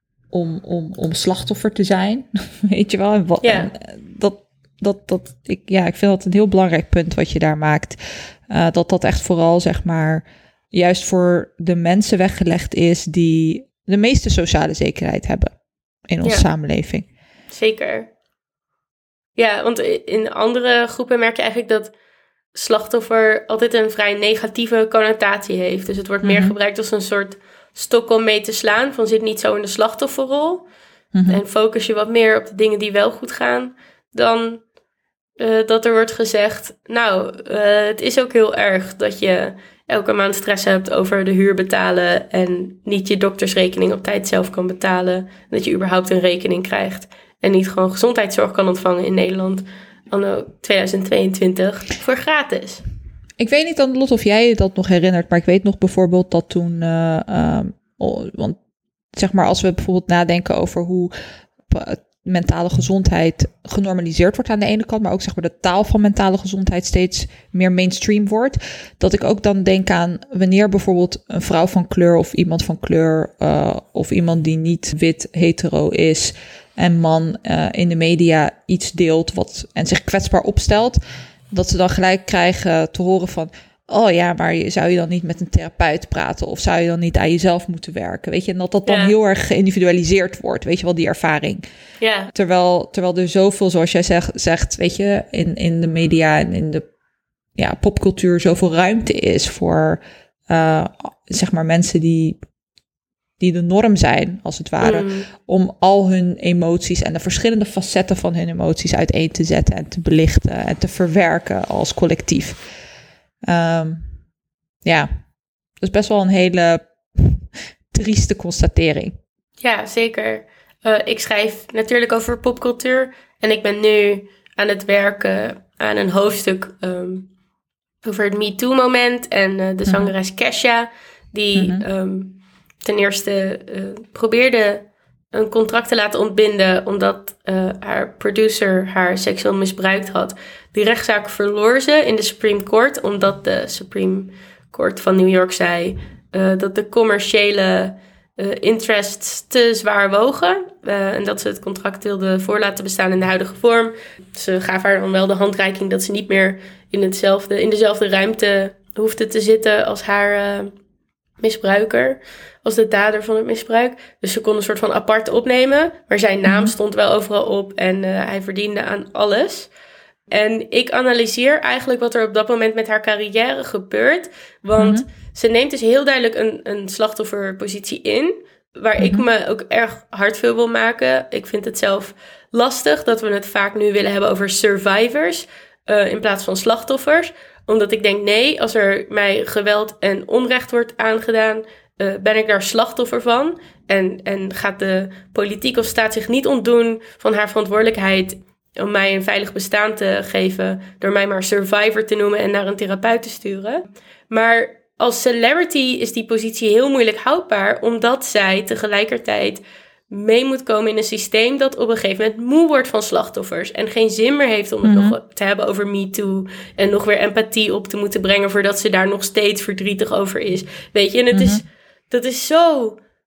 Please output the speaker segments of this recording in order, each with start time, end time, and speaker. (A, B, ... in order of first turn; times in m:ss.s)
0:00.3-0:15.6 A
0:03.4-0:03.7 B
0:16.1-0:17.1 A
0:17.5-0:18.1 B
0:19.4-0:21.9 B
0:22.5-0:30.7 B
0:26.2-0:26.6 A
0:31.1-0:31.4 A
0:31.3-0:34.6 B
0:35.4-0:52.8 B
0:53.4-0:58.6 A
0:59.1-1:01.1 A
1:01.7-1:21.0 A
1:21.5-1:31.6 A
1:28.8-1:29.1 B
1:32.0-1:32.3 B
1:32.3-1:36.8 A
1:37.6-1:42.4 A
1:43.4-1:52.6 A
1:44.8-1:45.3 B
1:53.4-1:54.1 A
1:54.8-1:55.1 A
1:55.8-1:59.2 A
1:59.6-2:07.3 B
2:08.0-2:40.7 B
2:09.9-2:10.1 A
2:11.6-2:11.8 A
2:41.4-2:49.7 B
2:46.5-2:46.7 A
2:50.3-3:43.0 B
2:54.8-2:55.1 A
2:59.0-2:59.2 A
3:34.8-3:35.2 A
3:41.3-3:41.6 A